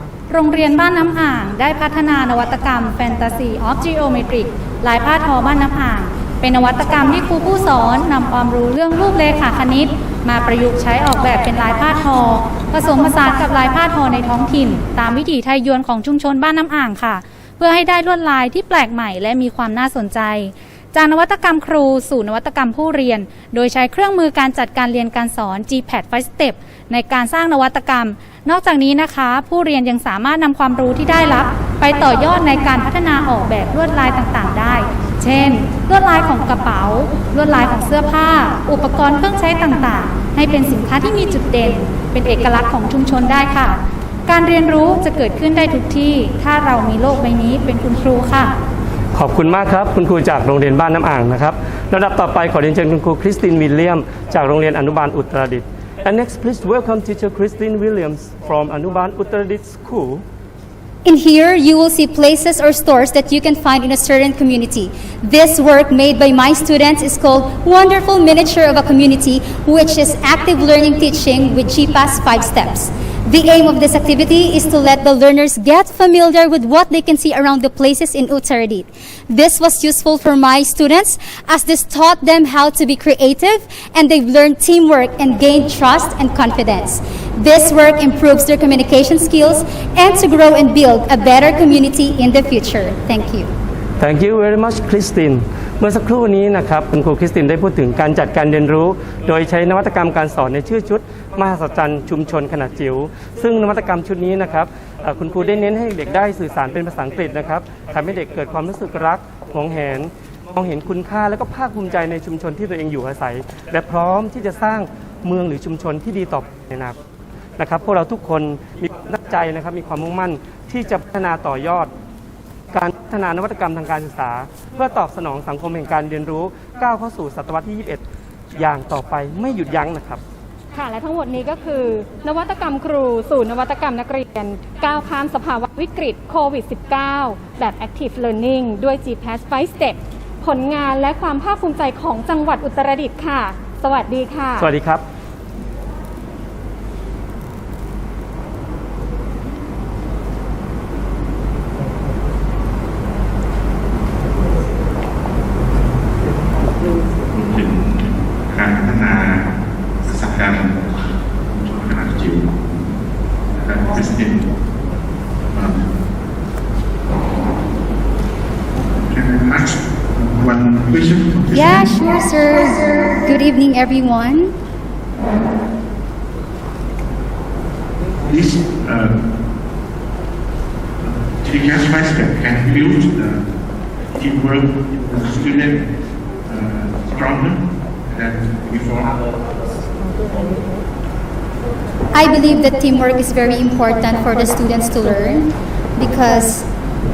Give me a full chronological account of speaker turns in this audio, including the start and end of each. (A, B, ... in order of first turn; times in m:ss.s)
0:00.3-0:48.6 A
0:49.1-1:00.2 B
1:01.0-1:33.5 C
1:34.0-1:57.0 B
1:57.6-2:01.9 B
2:02.7-2:08.0 B
2:08.5-2:10.2 B
2:10.7-2:24.7 D
2:24.6-2:25.0 B
2:37.3-2:42.8 E
2:43.5-2:44.5 E
2:45.5-2:45.9 E
2:49.0-2:51.9 E
2:51.5-2:54.6 C
2:58.2-2:59.2 E
3:01.0-3:03.5 E
3:04.1-3:05.9 E
3:06.5-3:09.3 E
3:12.1-3:16.7 C